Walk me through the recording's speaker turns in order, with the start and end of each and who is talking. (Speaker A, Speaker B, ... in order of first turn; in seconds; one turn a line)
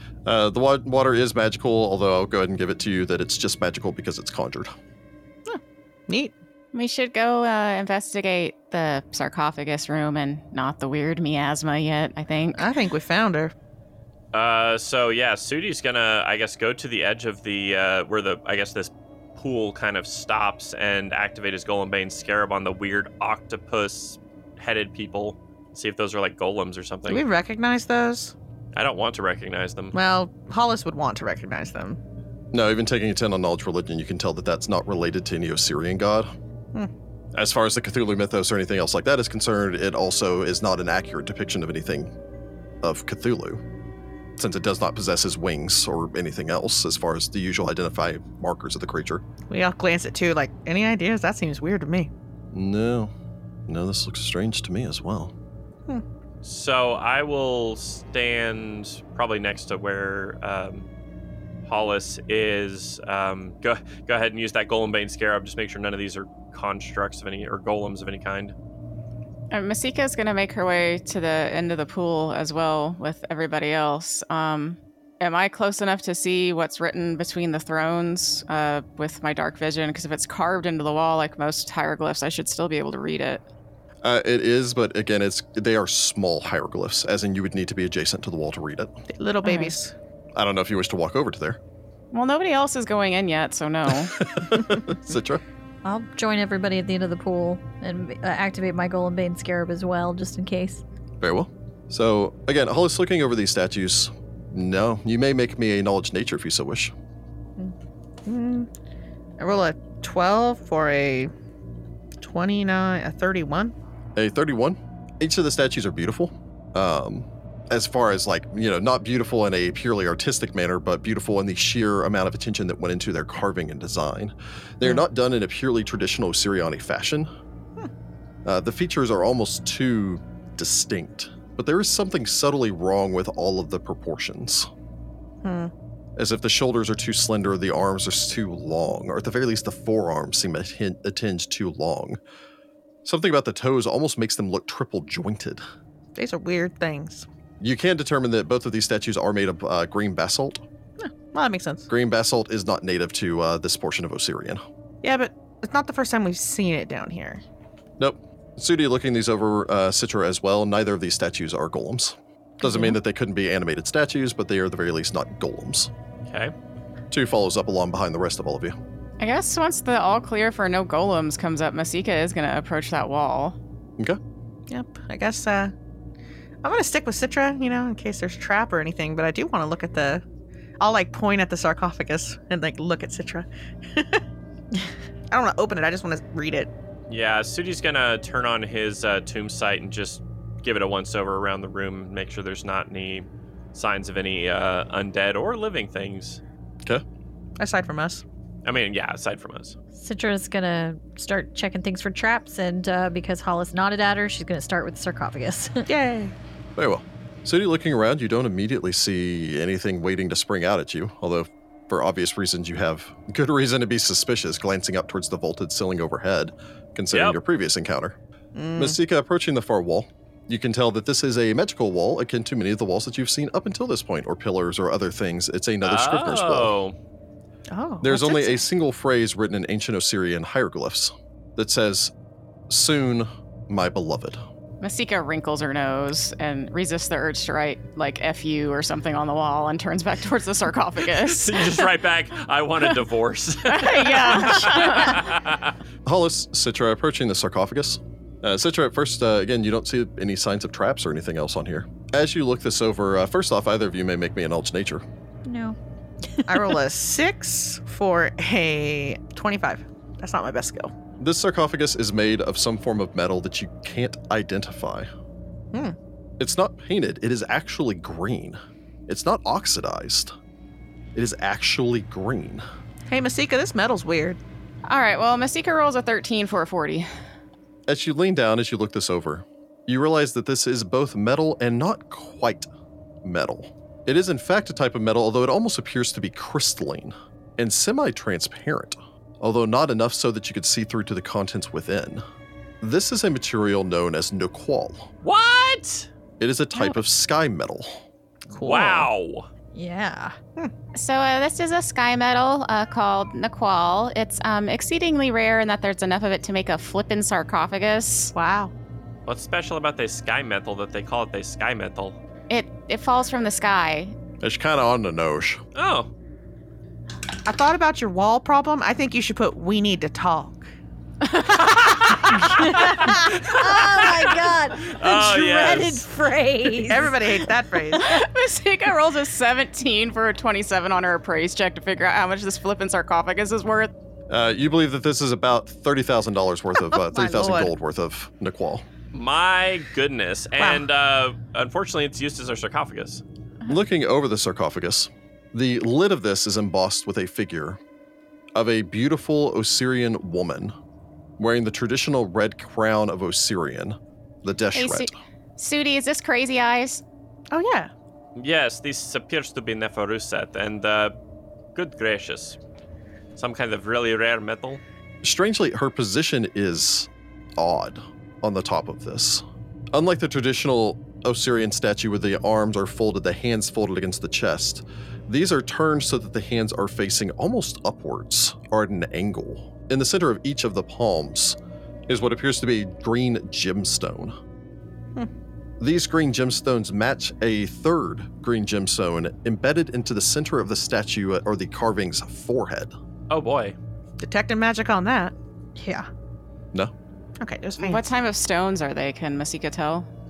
Speaker A: 0.2-4.7
Speaker B: 5.5-6.3
Speaker C: 6.7-12.7
Speaker B: 12.5-13.5
Speaker D: 14.3-27.2
Speaker B: 27.1-28.3
Speaker D: 28.7-29.9
Speaker B: 29.9-32.0
Speaker A: 32.5-36.3
Speaker A: 37.3-42.1
Speaker A: 42.8-43.6
Speaker A: 44.4-49.2
Speaker B: 49.5-52.1
Speaker A: 52.5-53.1
Speaker A: 53.7-55.3
Speaker D: 56.4-60.9
Speaker D: 61.6-68.5
Speaker C: 69.5-83.4
Speaker A: 84.0-88.9
Speaker B: 89.1-89.9
Speaker C: 89.4-89.7
Speaker A: 90.3-91.6
Speaker C: 92.1-94.3
Speaker A: 94.0-95.4
Speaker E: 95.8-100.8
Speaker A: 101.2-106.9
Speaker B: 108.2-108.7
Speaker B: 109.4-111.3
Speaker B: 112.2-113.7
Speaker A: 114.2-127.3
Speaker A: 128.4-134.7
Speaker B: 135.4-135.7
Speaker A: 136.2-142.2
Speaker A: 143.0-145.6
Speaker B: 146.2-147.3
Speaker A: 147.6-150.6
Speaker B: 151.0-151.9
Speaker A: 151.9-154.6
Speaker B: 155.0-157.4
Speaker A: 158.0-165.9
Speaker B: 162.6-162.9
Speaker D: 166.3-166.5
Speaker A: 167.1-168.8
Speaker C: 169.2-173.6
Speaker B: 174.7-175.7
Speaker B: 176.6-180.2
Speaker B: 180.8-184.2
Speaker B: 185.3-186.7
Speaker D: 187.1-196.4
Speaker B: 197.6-198.2
Speaker D: 198.6-199.8
Speaker E: 199.9-205.8
Speaker B: 205.9-206.3
Speaker A: 206.8-218.2
Speaker D: 217.1-217.4
Speaker B: 218.5-219.0
Speaker A: 218.8-226.7
Speaker D: 225.8-226.9
Speaker B: 227.7-228.6
Speaker A: 228.0-232.1
Speaker A: 232.7-234.4
Speaker C: 234.8-241.9
Speaker D: 241.2-245.7
Speaker C: 243.7-245.3
Speaker A: 246.0-255.0
Speaker E: 255.4-255.8
Speaker E: 256.3-256.8
Speaker B: 256.5-260.9
Speaker A: 261.2-265.1
Speaker A: 266.4-270.3
Speaker A: 271.1-272.6
Speaker B: 273.1-274.4
Speaker C: 274.9-277.1
Speaker A: 277.9-282.7
Speaker A: 283.2-292.2
Speaker A: 292.8-295.1
Speaker D: 295.2-296.1
Speaker A: 296.4-298.0
Speaker B: 298.5-299.1
Speaker D: 298.6-299.5
Speaker E: 299.7-300.3
Speaker C: 300.9-308.3
Speaker B: 308.3-308.7
Speaker D: 309.2-312.2
Speaker C: 312.5-314.1
Speaker A: 314.4-315.6
Speaker D: 315.7-316.1
Speaker B: 317.4-320.7
Speaker C: 321.2-322.2
Speaker E: 322.3-327.4
Speaker D: 322.3-326.0
Speaker B: 326.7-328.1
Speaker C: 327.9-333.9
Speaker A: 334.3-338.9
Speaker B: 336.8-337.7
Speaker D: 339.1-343.2
Speaker B: 340.6-340.8
Speaker A: 343.7-347.8
Speaker A: 348.5-350.7
Speaker A: 351.4-355.1
Speaker C: 354.7-357.0
Speaker B: 357.5-357.9
Speaker D: 358.4-361.1
Speaker D: 361.7-362.6
Speaker D: 363.4-364.8
Speaker A: 365.2-381.6
Speaker A: 382.1-384.3
Speaker A: 385.8-392.9
Speaker D: 393.3-393.8
Speaker B: 394.2-395.3
Speaker E: 395.8-396.1
Speaker B: 397.4-398.1
Speaker C: 397.8-400.1